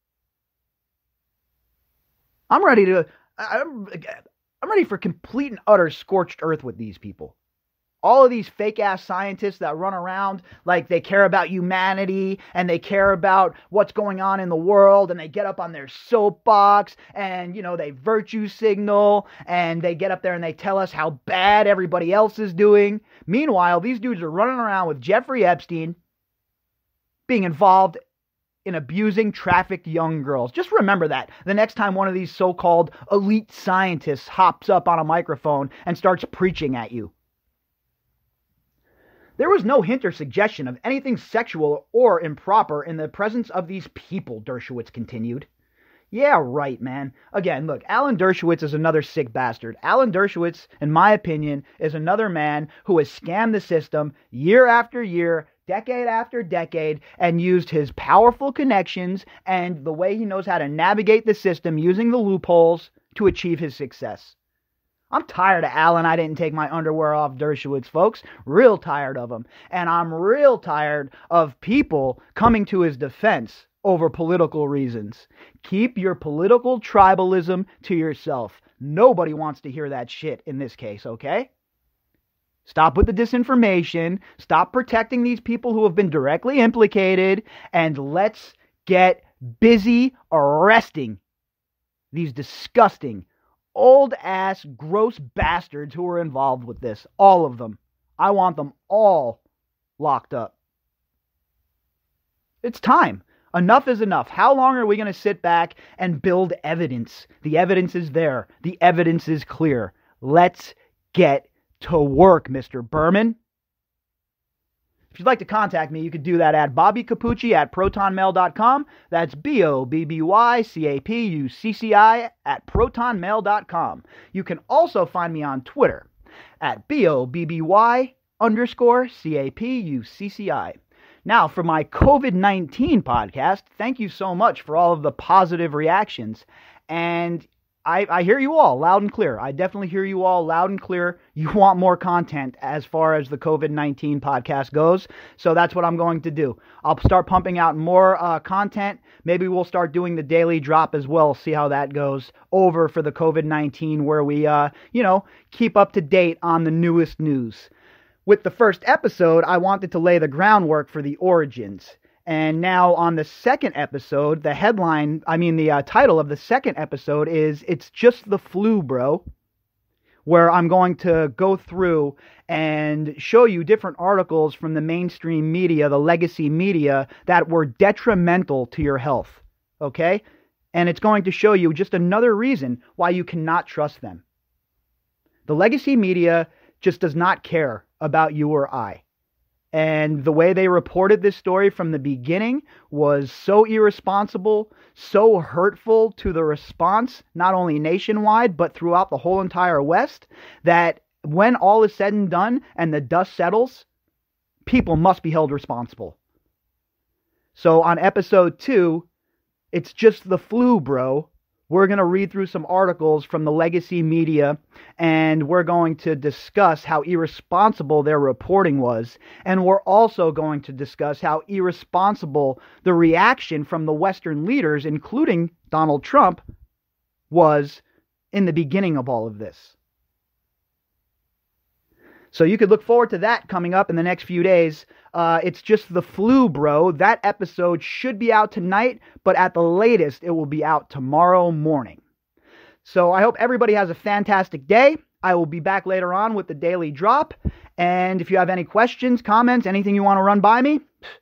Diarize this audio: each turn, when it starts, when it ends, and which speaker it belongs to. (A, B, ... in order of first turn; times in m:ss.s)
0:02.5-0:07.4 A
0:08.0-0:26.0 A
0:27.3-0:28.0 A
0:28.6-0:37.1 A
0:39.4-0:45.5 A
0:46.1-1:04.4 A
1:05.1-1:21.5 A
1:22.6-1:31.2 A
1:32.1-1:39.4 A
1:40.0-1:40.6 A
1:42.6-1:53.4 A
1:55.1-2:06.1 A
2:06.6-2:37.7 A
2:38.3-2:49.2 A
2:50.2-3:00.2 A
3:00.7-3:04.2 A
3:05.5-3:09.0 A
3:09.7-3:23.9 A
3:24.7-3:26.2 A
3:27.6-3:29.1 A
3:29.7-3:46.4 A
3:47.3-3:49.8 A
3:52.3-4:02.0 A
4:02.8-4:10.9 A